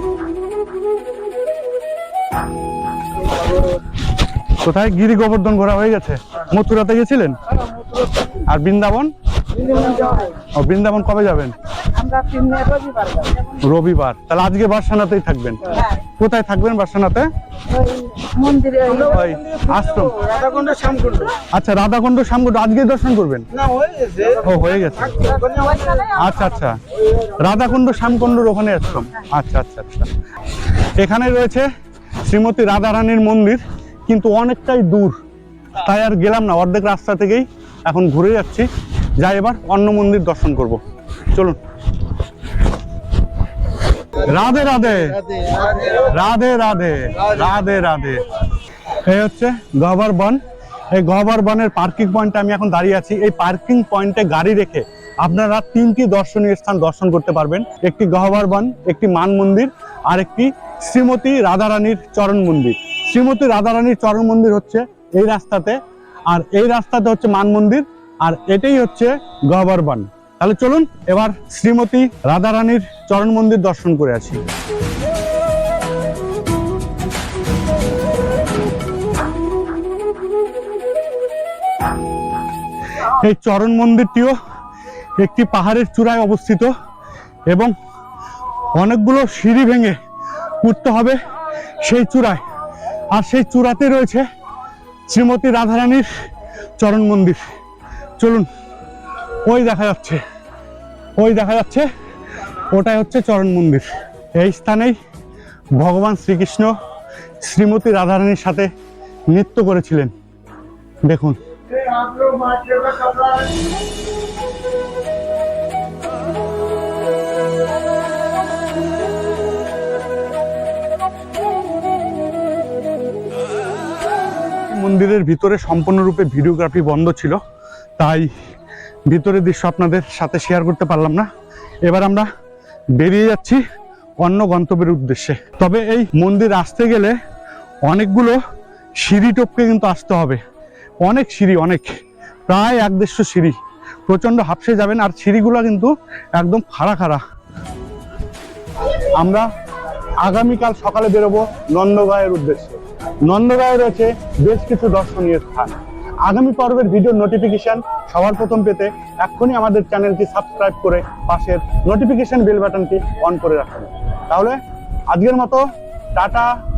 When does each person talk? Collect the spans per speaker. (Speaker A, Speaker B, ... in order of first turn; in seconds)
Speaker A: 4.6-7.4, 8.5-9.1, 10.6-11.5, 13.6-17.3, 19.1-20.4, 21.5-23.4, 24.2-25.4, 26.1-26.8, 27.4-30.1, 31.0-31.7, 32.2-35.2, 35.8-38.7, 39.2-40.8, 41.3-41.6, 44.2-45.2, 45.8-48.2, 49.1-50.4, 50.9-65.8, 66.3-74.4, 83.2-84.3, 85.2-86.7, 88.8-90.0, 90.6-91.2, 91.8-92.4, 93.1-94.2, 95.1-96.1, 96.8-97.5, 98.2-98.5, 99.5-100.2, 101.2-101.9, 102.7-103.9, 104.4-104.9, 105.8-106.7, 107.4-108.7, 109.3-110.1, 111.1-111.3, 124.7-127.4, 128.0-128.3, 129.1-131.3, 131.8-132.3, 133.0-133.6, 134.2-137.2, 137.9-138.4, 139.0-140.4, 141.0-141.9, 142.5-143.6, 144.1-147.2, 149.2-149.4, 150.2-152.8, 153.3-164.6, 165.1-166.5
Speaker B: 9.6-10.3, 11.9-13.6, 17.7-19.2, 20.5-21.1, 25.3-26.3